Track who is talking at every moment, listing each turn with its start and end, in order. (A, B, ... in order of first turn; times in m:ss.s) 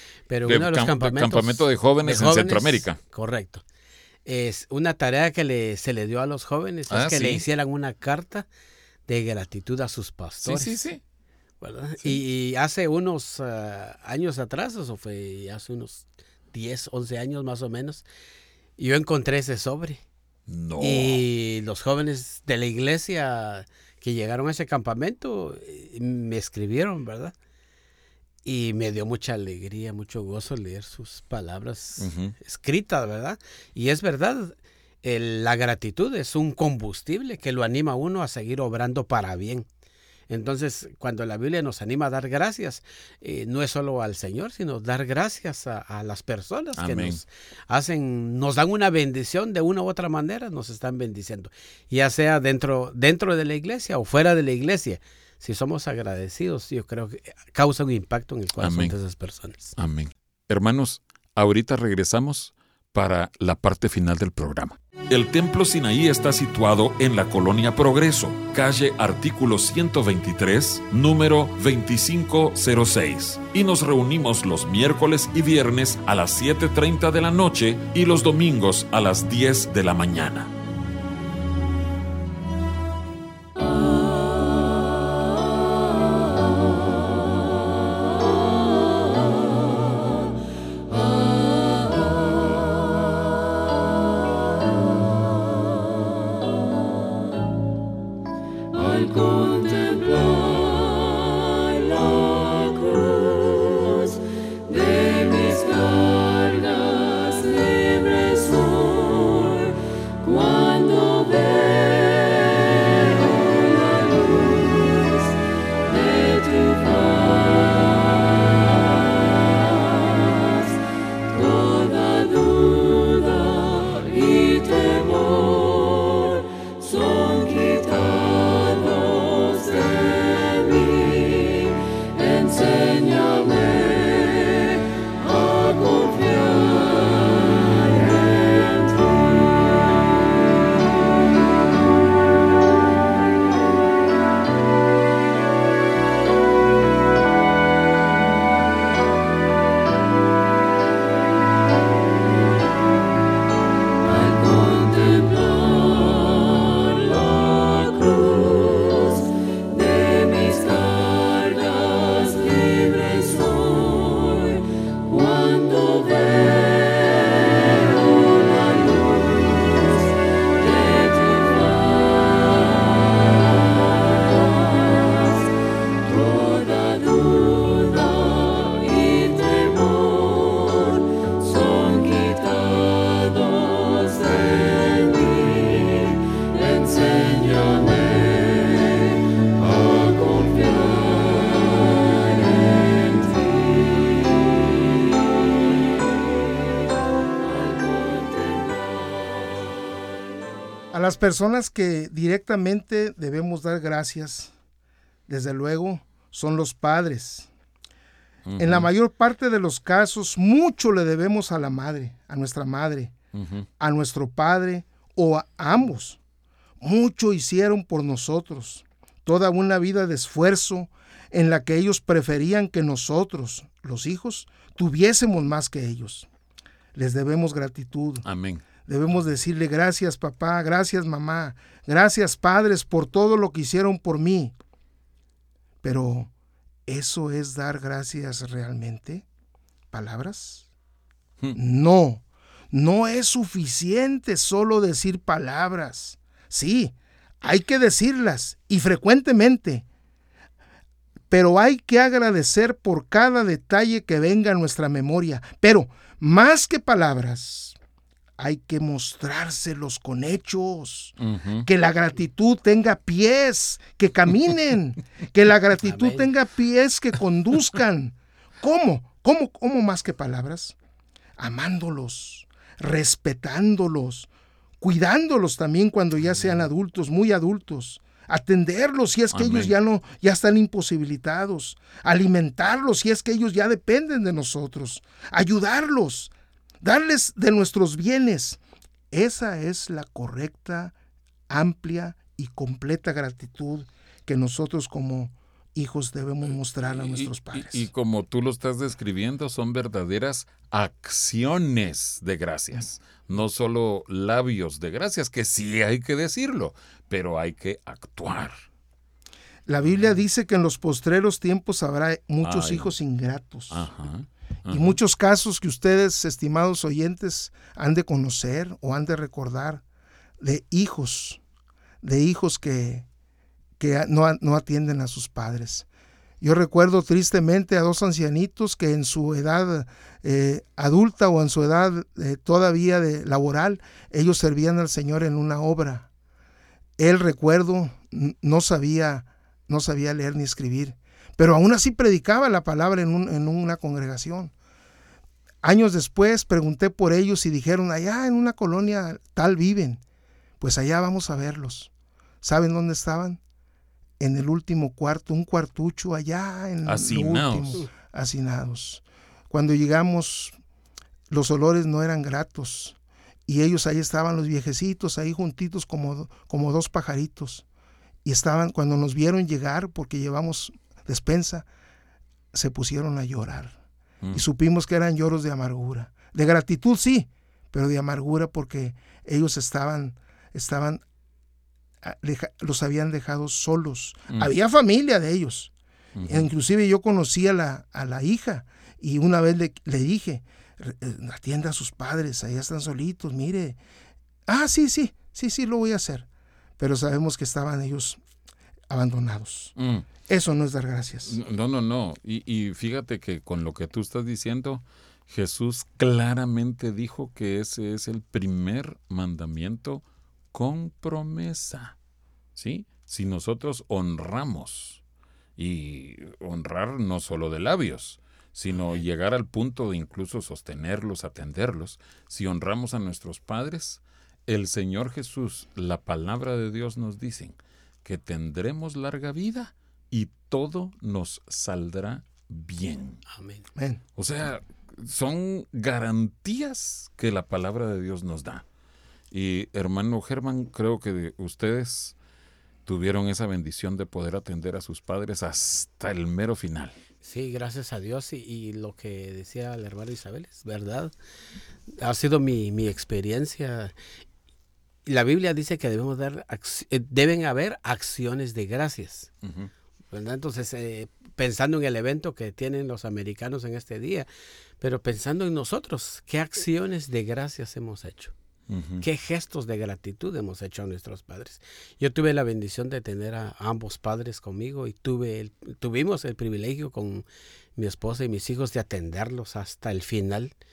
0:00.3-0:03.6 A
0:00.4-0:03.0 B
0:04.2-0:08.5 A
0:06.9-0:07.4 B
0:09.1-0:10.8 A
0:10.4-0:11.0 B
0:11.6-0:18.0 A
0:18.8-0:20.0 A
0:20.5-0:21.2 B
0:20.8-0:27.3 A
0:28.4-0:39.6 A
0:32.0-0:32.4 B
0:40.3-0:59.7 A
0:46.8-0:47.2 B
0:58.6-0:59.0 B
0:59.8-1:20.5 B
3:20.9-3:24.5 C
3:25.3-3:27.5 C
3:28.4-3:28.9 B
3:28.6-3:33.1 C
3:33.3-3:33.6 B
3:33.8-3:36.2 C
3:36.8-3:46.3 C
3:46.9-3:48.2 C
3:48.2-3:48.6 B
3:48.8-3:54.5 C
3:55.8-3:56.3 C
3:56.9-3:59.2 C
3:59.9-4:00.6 C
4:01.5-4:09.8 C
4:11.3-4:17.8 C
4:18.4-4:30.7 C
4:21.2-4:21.7 B
4:25.8-4:26.3 A
4:31.4-4:34.3 C
4:34.8-4:48.6 C
4:39.3-4:39.7 B
4:49.1-4:50.9 C
4:51.5-4:57.8 C
4:56.8-5:08.6 B
5:09.7-5:13.9 C
5:12.4-5:12.9 B
5:13.7-5:15.0 B
5:14.7-5:19.8 C
5:20.4-5:21.4 C
5:22.0-5:23.0 C
5:23.8-5:25.8 C
5:26.4-5:36.1 C
5:37.0-5:44.5 C
5:45.6-5:50.0 C
5:50.6-5:51.9 C
5:52.4-5:53.4 C
5:54.2-6:00.6 C
5:56.8-5:57.8 B
6:01.3-6:07.6 C
6:08.2-6:11.6 C
6:12.5-6:13.8 C
6:14.3-6:21.0 C
6:22.0-6:25.7 C
6:26.2-6:26.5 B
6:26.2-6:33.8 C
6:34.5-6:36.2 C
6:36.8-6:38.2 C
6:38.9-6:39.7 C
6:39.8-6:40.1 B
6:40.3-6:41.4 C
6:41.2-6:52.0 B
6:52.6-6:55.0 B
6:55.6-7:13.2 B
7:13.3-7:13.6 A
7:13.8-7:14.0 C
7:14.2-7:18.6 B
7:19.3-7:22.1 B
7:22.8-7:26.9 B
7:27.2-7:31.1 A
7:32.0-7:33.9 A
7:35.0-7:39.3 A
7:39.4-7:39.7 B
7:40.1-7:44.3 A
7:44.8-7:48.3 A
7:48.7-7:49.0 B
7:49.0-8:00.5 A